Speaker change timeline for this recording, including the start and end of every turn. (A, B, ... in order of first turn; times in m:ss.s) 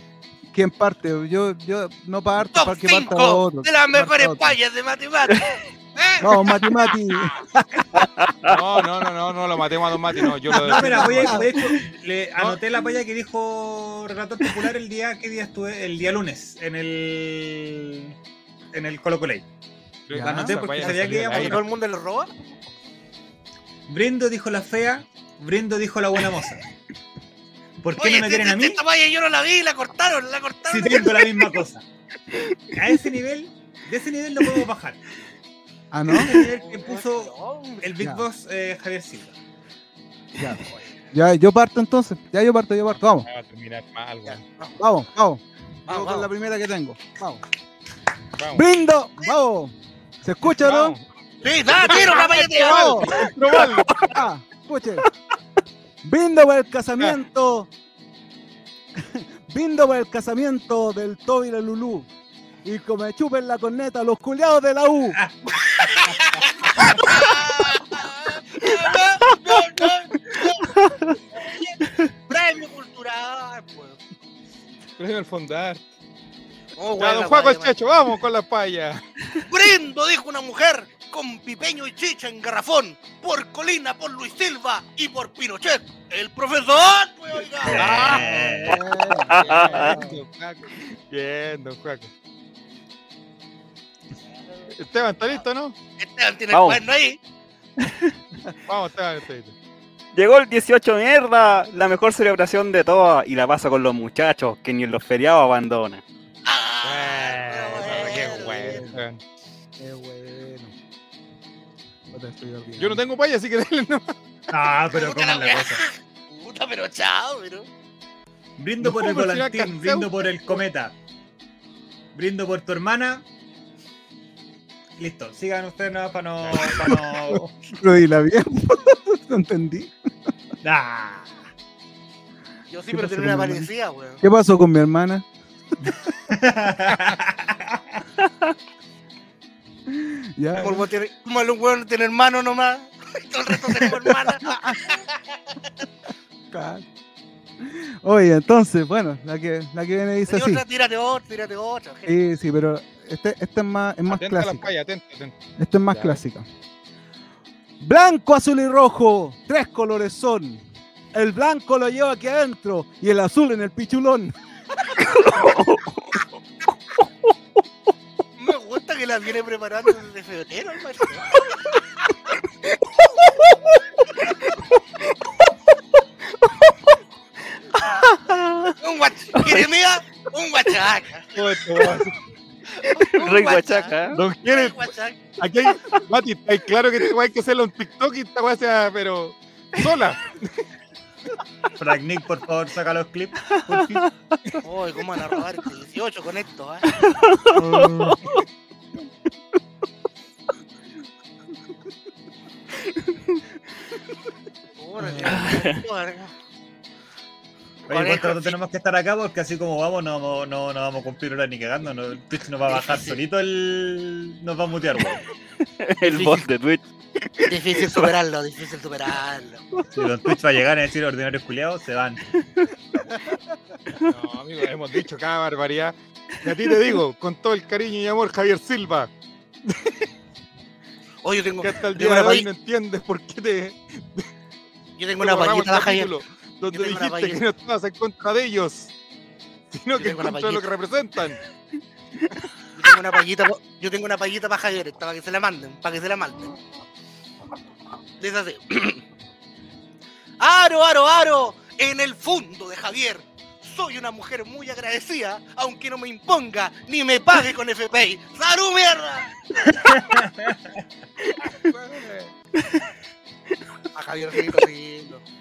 0:00.5-0:04.6 A
0:02.4-0:06.9 B
0:06.2-0:08.1 A
0:07.9-0:08.6 C
0:08.4-0:11.5 D
0:10.5-0:11.5 A
0:10.6-0:18.2 E
0:18.7-0:19.4 E
0:20.1-0:21.7 D
0:20.1-0:20.8 A
0:20.2-0:21.6 E
0:20.9-0:22.3 B
0:23.9-0:26.6 E
0:27.8-0:28.8 E
0:28.0-0:31.5 B
0:30.7-0:31.8 E
0:32.7-0:35.0 E
0:35.9-0:36.4 A
0:36.1-0:39.3 E
0:36.3-0:37.8 B
0:40.4-0:43.3 A
0:43.2-0:44.4 D
0:44.3-0:44.8 B
0:44.8-0:47.4 A
0:45.9-0:46.3 B
0:48.4-0:48.7 D
0:48.5-0:51.0 A
0:50.4-0:51.0 D
0:51.4-0:53.3 B
0:51.7-0:53.9 D
0:51.8-0:53.2 A
0:53.6-0:54.2 C
0:54.0-0:55.1 A
0:56.0-0:57.7 A
0:59.0-1:02.1 A
1:02.6-1:05.2 A
1:05.6-1:11.8 B
1:09.1-1:09.4 C
1:10.4-1:11.2 C
1:11.8-1:12.1 C
1:12.3-1:14.0 B
1:15.0-1:15.8 D
1:16.8-1:17.8 B
1:17.0-1:19.0 D
1:19.5-1:28.4 B
1:27.6-1:28.9 E
1:27.7-1:32.1 D
1:28.0-1:30.2 A
1:29.2-1:30.0 C
1:34.8-1:35.8 D
1:36.0-1:37.2 B
1:36.5-1:36.8 C
1:37.8-1:38.2 C
1:38.7-1:39.6 D
1:40.1-1:46.0 C
1:46.5-1:48.9 B
1:46.8-1:49.2 D
1:48.4-1:49.0 A
1:49.8-1:50.7 A
1:52.1-1:53.0 A
1:52.8-1:54.1 D
1:54.5-1:55.8 E
1:54.9-1:57.7 B
1:58.6-2:00.9 E
1:58.8-2:00.6 D
2:02.2-2:03.2 E
2:05.0-2:07.6 E
2:06.4-2:06.8 D
2:06.8-2:10.1 A
2:10.6-2:11.3 E
2:12.7-2:14.2 B
2:12.9-2:13.7 A
2:14.2-2:15.3 A
2:16.3-2:18.0 E
2:19.9-2:20.9 A
2:20.6-2:25.6 B
2:23.9-2:24.8 A
2:26.5-2:26.9 A
2:27.6-2:30.6 A
2:30.3-2:32.2 B
2:32.1-2:34.7 A
2:34.1-2:35.4 D
2:35.6-2:36.5 A
2:35.9-2:36.2 D
2:37.8-2:44.3 A
2:45.0-2:46.3 C
2:47.0-2:47.3 C
2:48.4-2:51.4 B
2:56.4-2:56.8 C
2:57.8-2:58.8 C
2:58.8-3:02.0 B
2:59.3-2:59.7 C
3:01.3-3:02.2 D
3:02.7-3:05.2 B
3:02.9-3:04.2 C
3:04.1-3:10.6 D
3:11.8-3:14.1 E
3:13.5-3:14.6 C
3:14.6-3:17.0 B
3:16.9-3:18.4 C
3:17.6-3:18.1 A
3:22.9-3:23.4 C
3:24.8-3:26.3 B
3:25.2-3:25.8 C
3:27.9-3:28.6 B
3:27.9-3:35.2 E
3:35.6-3:38.1 C
3:36.0-3:36.5 B
3:37.4-3:39.6 B
3:39.9-3:42.2 E
3:42.4-3:42.7 C
3:44.0-3:49.1 D
3:49.7-3:50.0 D
3:51.2-3:52.5 B
3:51.6-3:54.3 D
3:55.0-3:56.1 B
3:55.2-3:58.9 D
3:56.7-3:57.4 B
3:59.7-4:01.4 D
4:00.0-4:00.7 B
4:02.7-4:06.6 B
4:08.2-4:09.0 B
4:10.4-4:19.3 B
4:19.7-4:20.7 E
4:21.2-4:21.5 C
4:21.6-4:22.3 D
4:22.6-4:22.9 C
4:23.9-4:25.2 B